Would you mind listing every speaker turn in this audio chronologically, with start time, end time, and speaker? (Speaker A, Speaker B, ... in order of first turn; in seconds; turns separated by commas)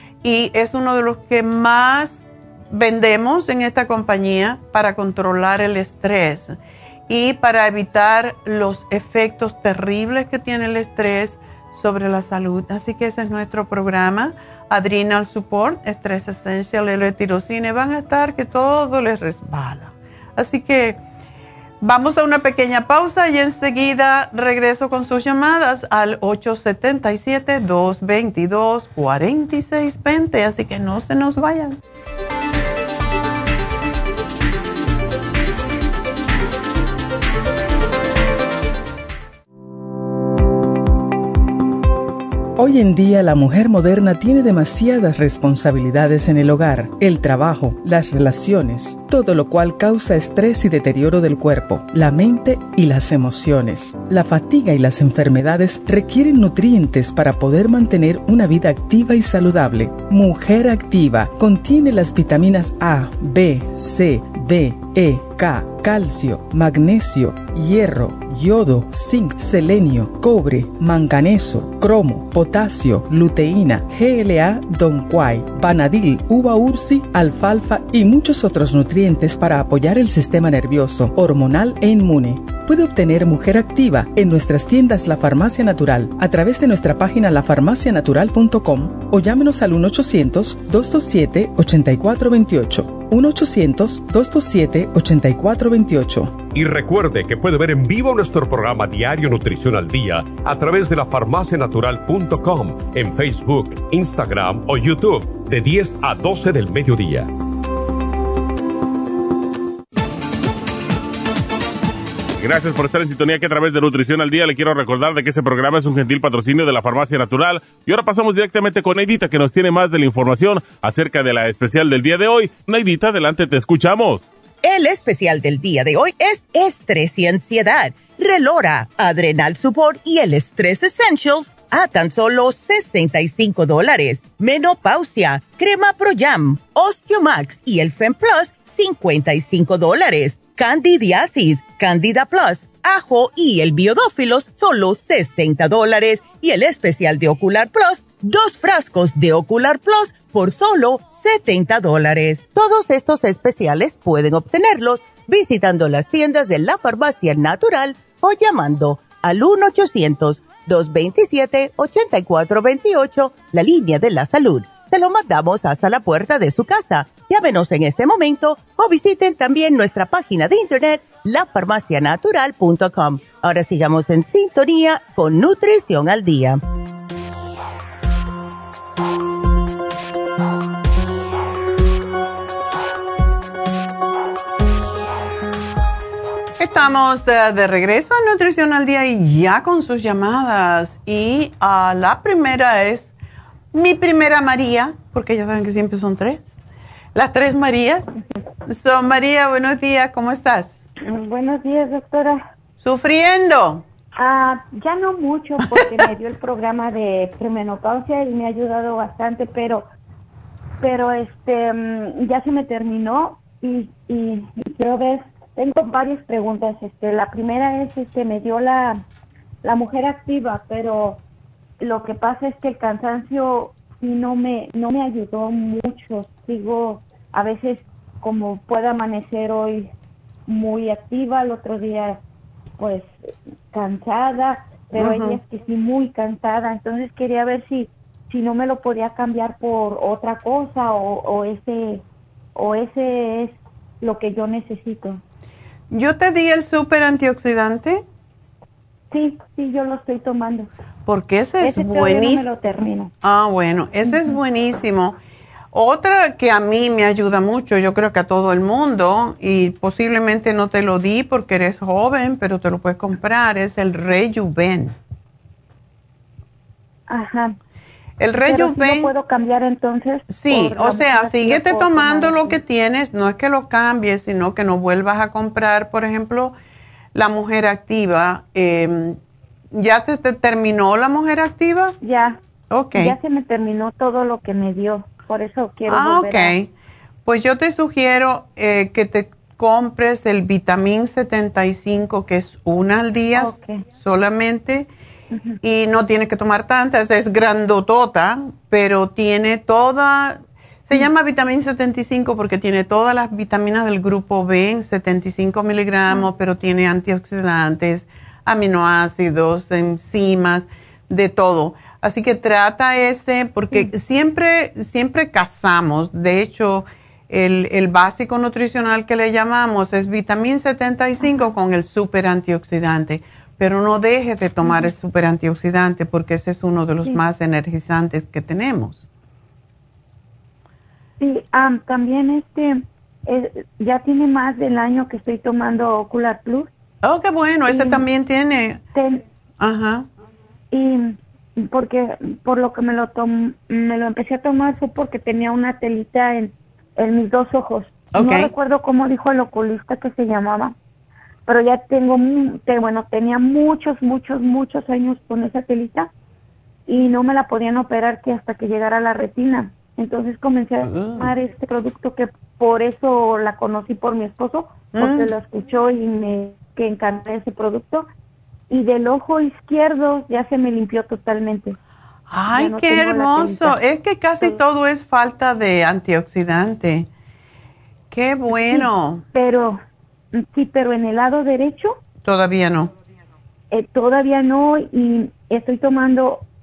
Speaker A: 0.2-6.6, Speaker A: 7.1-21.0, Speaker A: 21.8-31.8, Speaker B: 42.6-96.4, Speaker C: 96.5-107.3, Speaker D: 112.4-124.3, Speaker E: 124.6-176.6, Speaker A: 186.6-193.1, Speaker A: 193.7-196.6, Speaker A: 197.2-198.1, Speaker A: 198.7-200.8, Speaker F: 201.0-202.4, Speaker A: 202.8-203.8, Speaker F: 204.2-209.9, Speaker F: 210.8-219.1, Speaker F: 219.6-221.2, Speaker F: 221.8-229.9, Speaker F: 230.5-232.2, Speaker F: 232.8-233.2, Speaker F: 233.7-242.0, Speaker A: 235.0-235.4, Speaker F: 242.6-245.2, Speaker A: 245.9-248.0, Speaker F: 249.1-250.7, Speaker A: 251.1-252.5, Speaker F: 251.6-253.1, Speaker A: 253.2-255.2, Speaker F: 254.1-254.4, Speaker A: 255.7-264.9, Speaker F: 267.1-267.6, Speaker A: 268.2-269.1, Speaker F: 268.5-272.6, Speaker A: 270.3-276.5, Speaker A: 277.1-279.2, Speaker A: 279.7-282.0, Speaker F: 282.0-282.4, Speaker A: 282.7-283.2, Speaker F: 282.9-286.6, Speaker A: 285.9-286.7, Speaker A: 287.3-294.9, Speaker F: 293.3-293.8, Speaker A: 295.6-329.1, Speaker F: 331.2-336.7, Speaker A: 337.0-338.8, Speaker F: 337.7-338.0, Speaker F: 338.9-339.2, Speaker A: 339.6-340.1, Speaker F: 340.7-350.8, Speaker A: 348.1-348.5, Speaker F: 351.5-356.1, Speaker F: 356.9-368.1, Speaker A: 360.8-361.3, Speaker A: 364.9-365.3, Speaker F: 368.7-371.8, Speaker A: 372.3-377.1, Speaker F: 372.5-373.8, Speaker A: 378.1-379.2, Speaker F: 378.7-379.8, Speaker F: 380.3-382.0, Speaker A: 382.2-382.9, Speaker F: 383.7-386.4